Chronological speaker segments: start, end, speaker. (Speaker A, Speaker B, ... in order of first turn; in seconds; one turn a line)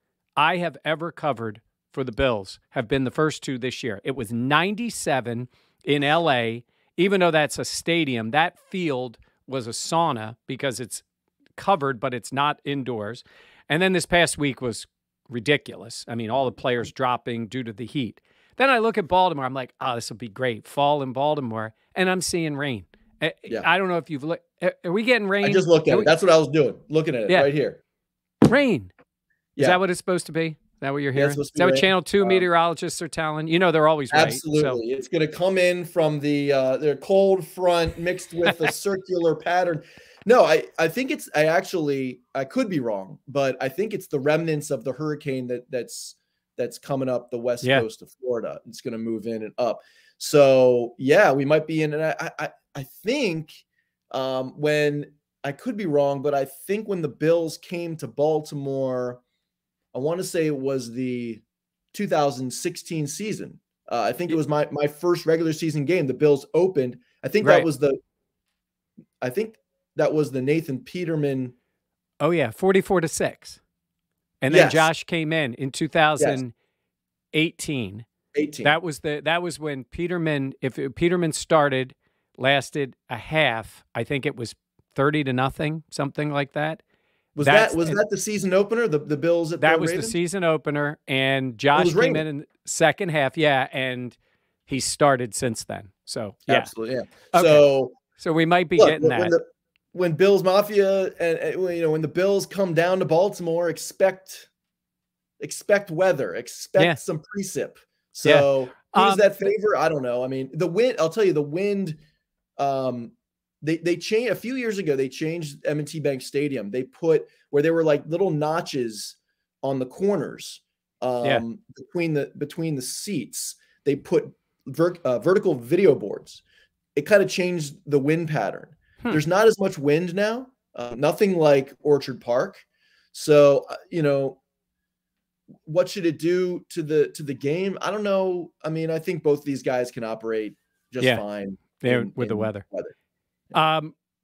Speaker A: 0.4-11.0
Speaker A: 11.6-26.1
Speaker B: 25.4-27.8
Speaker A: 28.4-28.9
Speaker A: 29.6-34.8
Speaker B: 31.1-32.5
Speaker B: 34.1-59.2
Speaker B: 59.9-68.0
Speaker A: 67.4-67.7
Speaker B: 69.2-71.5
Speaker A: 72.2-73.6
Speaker A: 74.4-76.5
Speaker B: 74.5-74.9
Speaker A: 77.3-78.1
Speaker B: 78.3-78.7
Speaker A: 78.6-86.8
Speaker B: 87.3-90.2
Speaker A: 87.4-88.0
Speaker A: 89.6-96.7
Speaker B: 91.7-92.2
Speaker B: 96.5-98.0
Speaker A: 97.3-99.3
Speaker B: 98.8-104.5
Speaker B: 105.4-112.0
Speaker A: 108.2-109.3
Speaker B: 112.6-126.4
Speaker B: 126.9-134.4
Speaker B: 135.6-142.9
Speaker A: 141.8-142.6
Speaker A: 143.5-143.9